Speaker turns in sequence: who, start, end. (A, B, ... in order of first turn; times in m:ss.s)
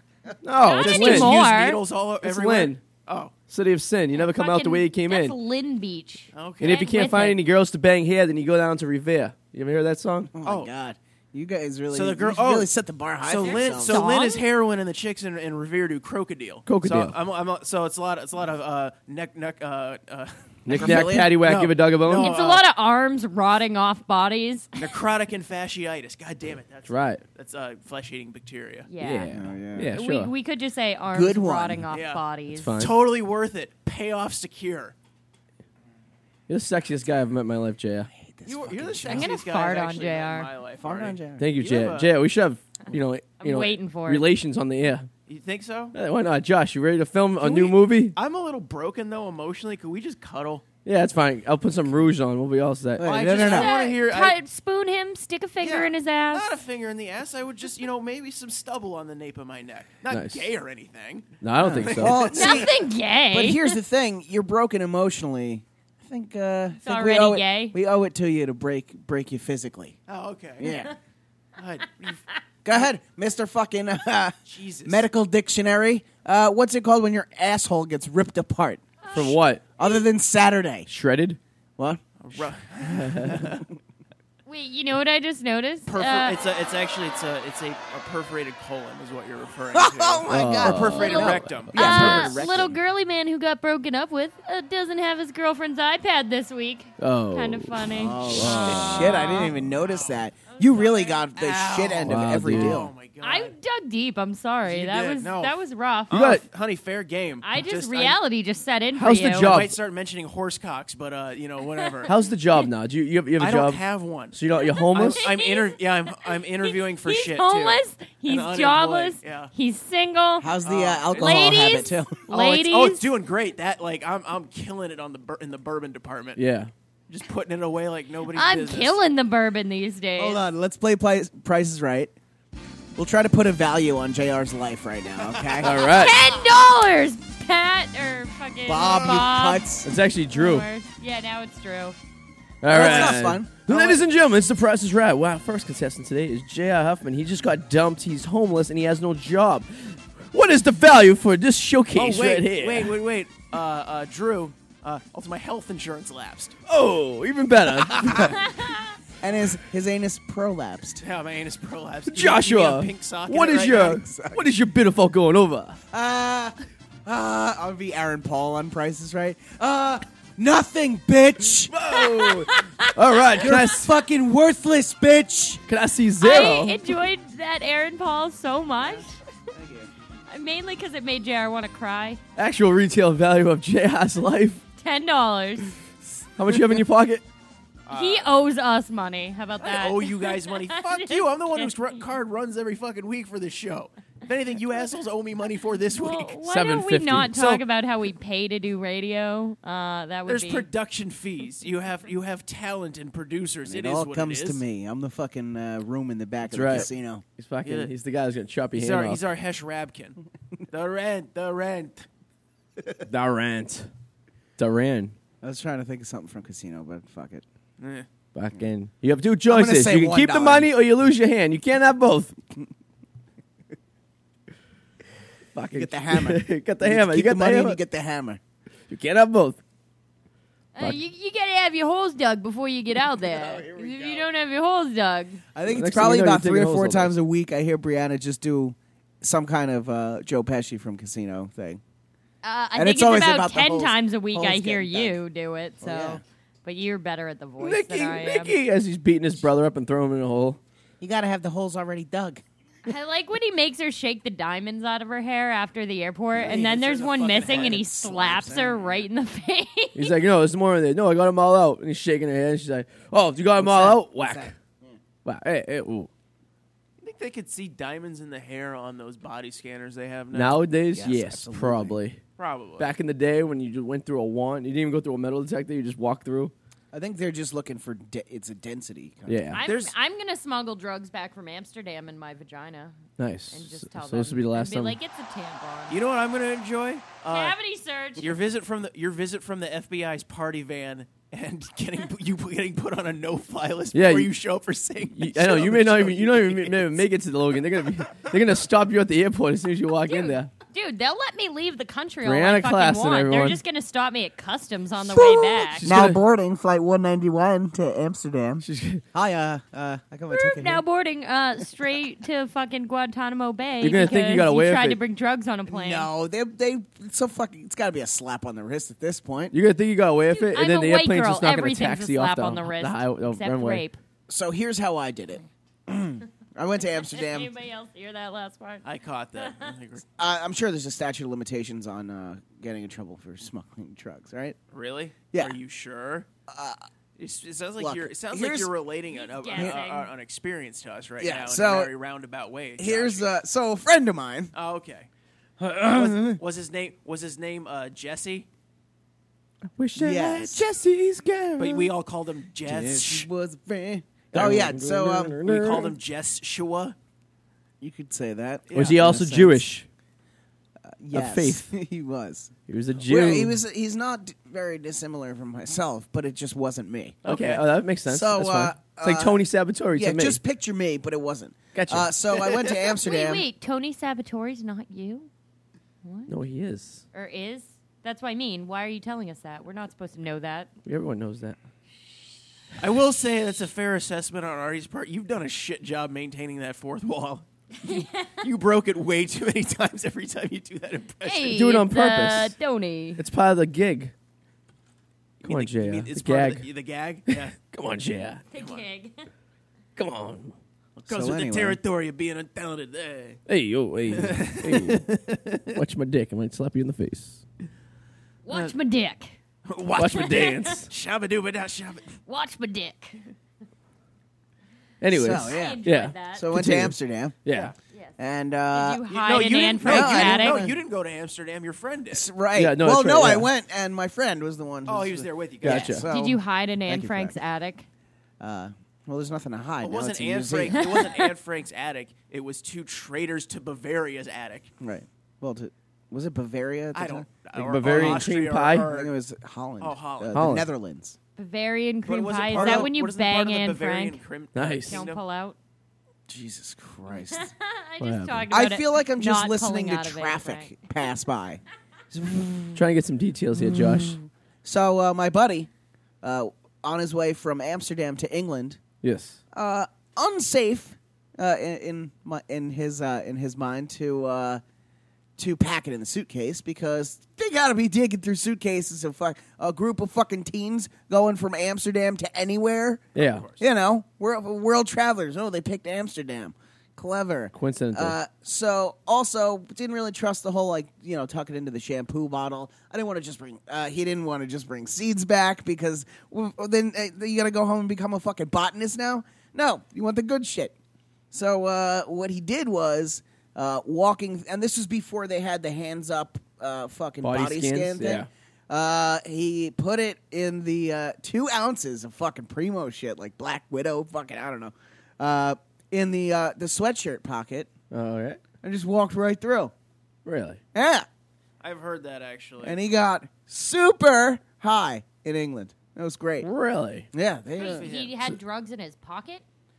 0:00.4-0:01.4 A
0:00.6-0:01.8 B
0:00.8-0:03.3 C
0:02.2-0:02.8 A
0:03.5-0:05.4 A
0:04.1-0:07.4 B
0:06.3-0:06.9 C
0:06.6-0:10.3 A
0:10.3-0:14.0 D
0:10.4-0:10.7 C
0:11.9-0:12.7 C
0:13.2-0:22.6 C
0:13.4-0:14.5 B
0:16.6-0:17.2 A
0:20.6-0:22.4 A
0:20.7-0:21.4 D
0:22.2-0:24.8 B
0:24.8-0:28.9 C
0:26.9-0:27.2 A
0:28.9-0:29.3 B
0:29.0-0:30.3 A
0:29.3-0:29.9 D
0:29.9-0:32.7 B
0:31.1-0:31.9 D
0:31.9-0:32.2 C
0:32.5-0:33.0 A
0:32.8-0:34.9 C
0:36.5-0:38.1 A
0:38.1-0:39.3 D
0:38.4-0:42.1 C
0:39.0-0:40.5 B
0:40.8-0:41.5 D
0:41.4-0:45.1 A
0:43.4-0:44.3 B
0:45.3-0:46.0 C
0:45.9-0:48.2 A
0:47.4-0:50.6 C
0:50.8-0:53.3 A
0:53.0-0:53.7 D
0:53.0-0:54.4 C
0:53.4-0:56.4 B
0:55.6-1:02.7 C
1:00.1-1:00.5 A
1:01.4-1:02.3 A
1:01.6-1:10.0 D
1:02.3-1:03.8 B
1:06.8-1:07.8 B
1:10.1-1:10.8 C
1:10.6-1:10.9 D
1:11.6-1:12.2 C
1:12.6-1:18.8 D
1:14.4-1:15.0 C
1:19.0-1:20.0 B
1:19.1-1:19.6 A
1:19.8-1:20.9 D
1:20.9-1:21.4 A
1:21.8-1:22.4 D
1:22.2-1:23.6 C
1:22.8-1:23.5 A
1:24.4-1:26.4 B
1:25.9-1:32.4 C
1:29.7-1:32.8 D
1:30.3-1:32.3 A
1:31.0-1:39.5 B
1:37.0-1:39.4 A
1:37.9-1:42.9 D
1:38.7-1:40.2 C
1:40.5-1:41.2 B
1:41.3-1:43.5 C
1:42.0-1:42.8 A
1:43.2-1:46.1 B
1:44.6-1:45.5 C
1:46.1-1:46.4 A
1:46.1-1:48.2 C
1:47.4-1:49.6 B
1:48.9-1:49.8 A
1:49.4-1:52.1 C
1:52.0-1:55.2 A
1:53.4-1:54.4 C
1:54.6-2:00.5 B
1:54.9-1:59.5 C
2:00.4-2:02.2 D
2:00.6-2:01.6 C
2:01.2-2:03.0 B
2:02.3-2:06.4 C
2:06.4-2:06.7 A
2:07.1-2:09.0 C
2:08.3-2:10.4 B
2:10.2-2:12.1 D
2:13.0-2:15.7 D
2:15.2-2:15.7 C
2:15.6-2:16.2 A
2:15.8-2:19.7 B
2:18.6-2:19.9 D
2:19.8-2:20.6 A
2:20.3-2:22.0 B
2:22.6-2:33.0 A
2:22.6-2:24.0 D
2:22.8-2:23.1 C
2:31.9-2:36.6 C
2:36.7-2:38.4 A
2:39.2-2:41.0 D
2:41.0-2:44.0 C
2:42.1-2:45.8 A
2:43.5-2:44.5 D
2:45.9-2:51.7 D
2:51.7-2:53.9 A
2:51.9-2:52.9 B
2:53.3-2:55.6 D
2:55.7-2:56.8 A
2:56.2-2:59.2 B
2:58.8-2:59.9 D
3:00.3-3:02.2 B
3:02.4-3:04.6 A
3:04.8-3:05.7 B
3:06.4-3:07.2 A
3:07.8-3:08.3 C
3:07.9-3:11.9 B
3:09.6-3:16.4 C
3:15.9-3:20.7 B
3:16.4-3:17.3 A
3:17.3-3:17.6 C
3:20.3-3:24.6 C
3:23.7-3:27.2 D
3:26.5-3:29.2 A
3:27.6-3:27.9 C
3:28.7-3:30.2 C
3:30.7-3:32.0 C
3:33.0-3:33.9 A
3:34.6-3:35.1 A
3:35.4-3:37.4 D
3:37.8-3:38.0 C
3:38.3-3:42.3 A
3:39.5-3:40.7 D
3:45.5-3:47.8 A
3:45.7-3:48.4 D
3:48.9-3:49.6 A
3:50.7-3:55.4 B
3:53.6-3:54.2 D
3:55.5-4:01.8 D
3:55.6-3:57.1 A
4:02.4-4:08.6 B
4:02.7-4:05.2 D
4:05.8-4:06.2 D
4:07.6-4:10.6 A
4:11.0-4:12.4 D
4:12.8-4:20.1 B
4:16.4-4:19.0 D
4:16.5-4:17.8 C
4:19.9-4:24.5 A
4:23.6-4:25.0 D
4:25.2-4:26.1 A
4:27.0-4:30.6 C
4:30.3-4:32.2 A
4:30.9-4:32.0 D
4:32.4-4:32.9 C
4:32.8-4:36.5 A
4:36.9-4:39.6 D
4:39.3-4:39.6 A
4:39.5-4:43.0 B
4:39.6-4:39.9 C
4:43.2-4:45.0 A
4:43.5-4:46.0 B
4:45.9-4:47.6 C
4:47.3-4:48.4 B
4:48.2-4:57.0 C
4:53.9-4:54.3 A
4:55.1-5:00.5 A
5:00.0-5:05.9 B
5:02.2-5:03.6 A
5:05.2-5:10.8 D
5:05.7-5:06.2 A
5:08.6-5:09.0 A
5:10.3-5:16.1 B
5:13.8-5:15.0 A
5:15.7-5:19.6 D
5:19.5-5:23.8 A
5:20.3-5:24.0 B
5:24.3-5:27.5 D
5:27.1-5:28.8 B
5:28.8-5:30.0 C
5:30.2-5:34.6 D
5:34.7-5:36.3 C
5:35.3-5:35.6 D
5:36.5-5:36.8 D
5:37.2-5:43.3 C
5:37.8-5:38.7 D
5:39.1-5:40.1 B
5:39.5-5:39.8 D
5:41.2-5:41.9 D
5:42.8-5:44.5 D
5:44.5-5:45.1 C
5:45.6-5:46.4 D
5:45.9-5:48.5 C
5:49.7-5:51.9 A
5:50.0-5:50.6 D
5:51.6-5:53.3 C
5:52.6-5:55.4 D
5:54.3-5:55.9 A
5:55.4-5:57.0 C
5:57.8-5:59.6 D
5:58.7-5:59.0 C
5:58.7-5:59.9 A
6:01.0-6:07.2 D
6:01.1-6:01.7 A
6:02.7-6:03.6 A
6:07.2-6:07.6 C
6:07.2-6:10.4 A
6:08.0-6:13.4 D
6:11.7-6:12.1 A
6:13.0-6:15.3 B
6:16.0-6:16.3 B
6:16.3-6:17.0 A
6:17.1-6:20.7 B
6:20.8-6:21.6 A
6:22.8-6:31.5 C
6:27.8-6:28.4 B
6:31.2-6:33.2 B
6:31.5-6:32.5 A
6:33.2-6:34.1 A
6:35.4-6:37.6 C
6:35.4-6:36.7 A
6:37.3-6:38.4 A
6:38.5-6:39.3 B
6:38.5-6:38.8 C
6:40.0-6:40.5 A
6:41.0-6:43.4 C
6:41.1-6:41.8 D
6:43.5-6:45.1 A
6:44.1-6:45.7 C
6:45.7-6:47.4 A
6:48.4-6:49.4 B
6:49.7-6:52.1 C
6:49.9-6:50.9 A
6:50.4-6:50.7 B
6:52.3-6:53.2 B
6:55.0-6:57.7 A
6:55.1-6:55.8 D
6:55.5-6:56.4 B
6:56.3-6:57.4 D
6:57.5-6:57.7 C
6:57.9-6:58.2 B
6:58.2-6:59.0 D
6:58.7-7:00.6 B
6:59.1-7:02.2 C
6:59.8-7:00.8 D
7:02.1-7:07.4 D
7:02.5-7:03.5 A
7:04.8-7:06.0 C
7:05.6-7:06.0 A
7:06.1-7:07.8 B
7:08.4-7:11.0 D
7:09.8-7:14.7 C
7:14.8-7:18.3 D
7:16.9-7:19.1 C
7:17.5-7:18.9 A
7:18.9-7:21.2 D
7:19.8-7:20.5 C
7:20.3-7:20.7 A
7:21.4-7:24.2 B
7:22.0-7:25.2 C
7:22.5-7:22.9 D
7:24.5-7:25.0 A
7:24.9-7:25.6 B
7:26.3-7:27.5 D
7:27.3-7:30.7 B
7:28.0-7:28.5 A
7:28.5-7:31.6 D
7:32.1-7:32.8 D
7:32.7-7:34.2 A
7:33.7-7:35.7 D
7:36.2-7:38.8 D
7:39.0-7:39.4 A
7:39.5-7:44.6 D
7:45.4-7:53.1 D
7:53.1-7:53.4 A
7:53.2-7:53.6 C
7:53.6-8:10.7 D
7:57.5-7:58.2 A
8:11.3-8:27.7 D
8:17.2-8:18.3 A
8:27.9-8:28.4 A
8:28.6-8:29.7 D
8:30.2-8:30.6 A
8:30.7-8:31.0 D
8:31.6-8:32.8 C
8:32.6-8:36.5 D
8:36.4-8:37.1 A
8:37.1-8:37.9 D
8:37.5-8:38.2 C
8:37.6-8:39.4 B